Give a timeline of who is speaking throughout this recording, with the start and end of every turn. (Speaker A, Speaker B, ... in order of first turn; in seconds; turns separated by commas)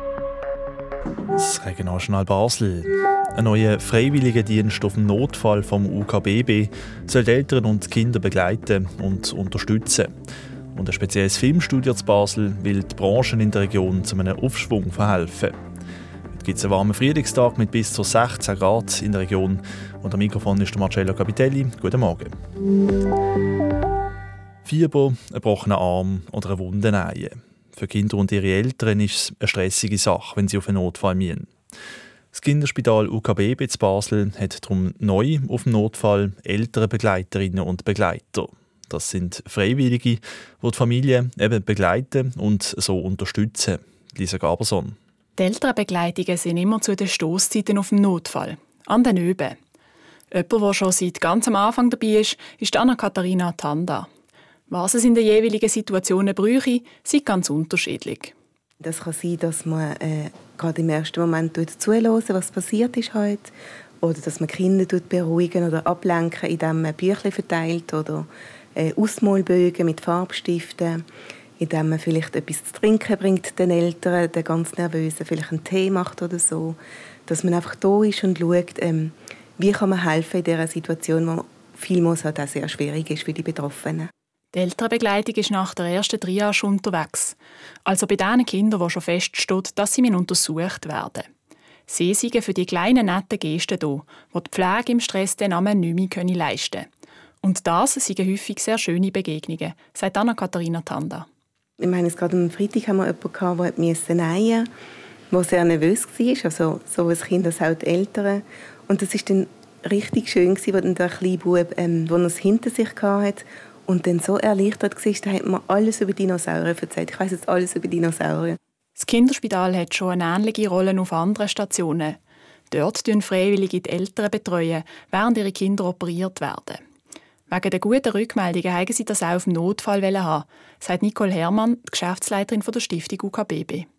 Speaker A: 1.3-10.1, Speaker A: 10.7-15.6, Speaker A: 16.3-22.3, Speaker A: 24.6-31.5, Speaker A: 32.3-45.0, Speaker B: 45.4-49.5, Speaker B: 50.3-54.1, Speaker B: 54.7-58.3, Speaker C: 58.8-63.5, Speaker C: 64.0-71.0, Speaker C: 71.6-84.1, Speaker B: 84.5-91.3, Speaker B: 91.9-96.9, Speaker B: 97.4-101.2, Speaker C: 101.8-104.7, Speaker C: 105.3-118.6, Speaker B: 119.0-122.2, Speaker B: 122.7-126.8, Speaker B: 127.5-133.8